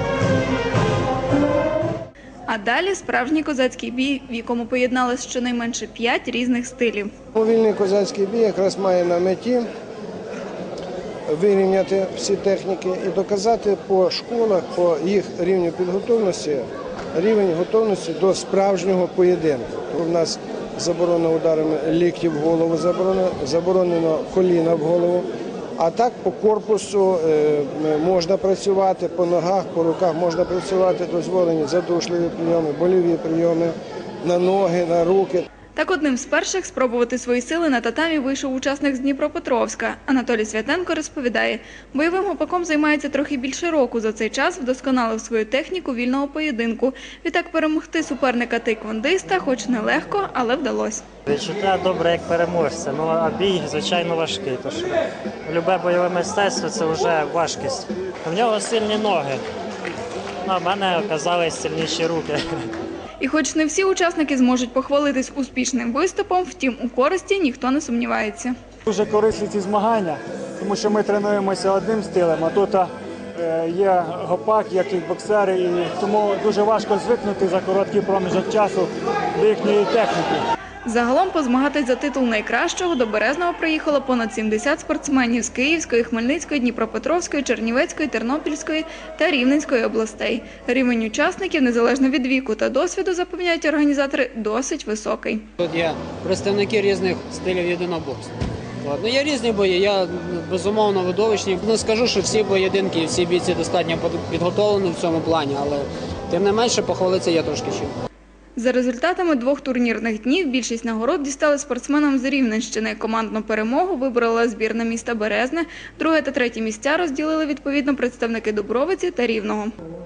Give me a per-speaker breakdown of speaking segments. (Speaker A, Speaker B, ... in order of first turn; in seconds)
Speaker A: 2.5-7.1, 35.8-51.0, 63.2-68.5, 80.8-95.5, 108.6-119.7
Speaker B: 7.3-9.7, 11.3-25.2, 25.8-35.4
Speaker C: 51.2-59.4, 60.4-62.4
Speaker D: 68.8-80.5
Speaker E: 95.6-108.0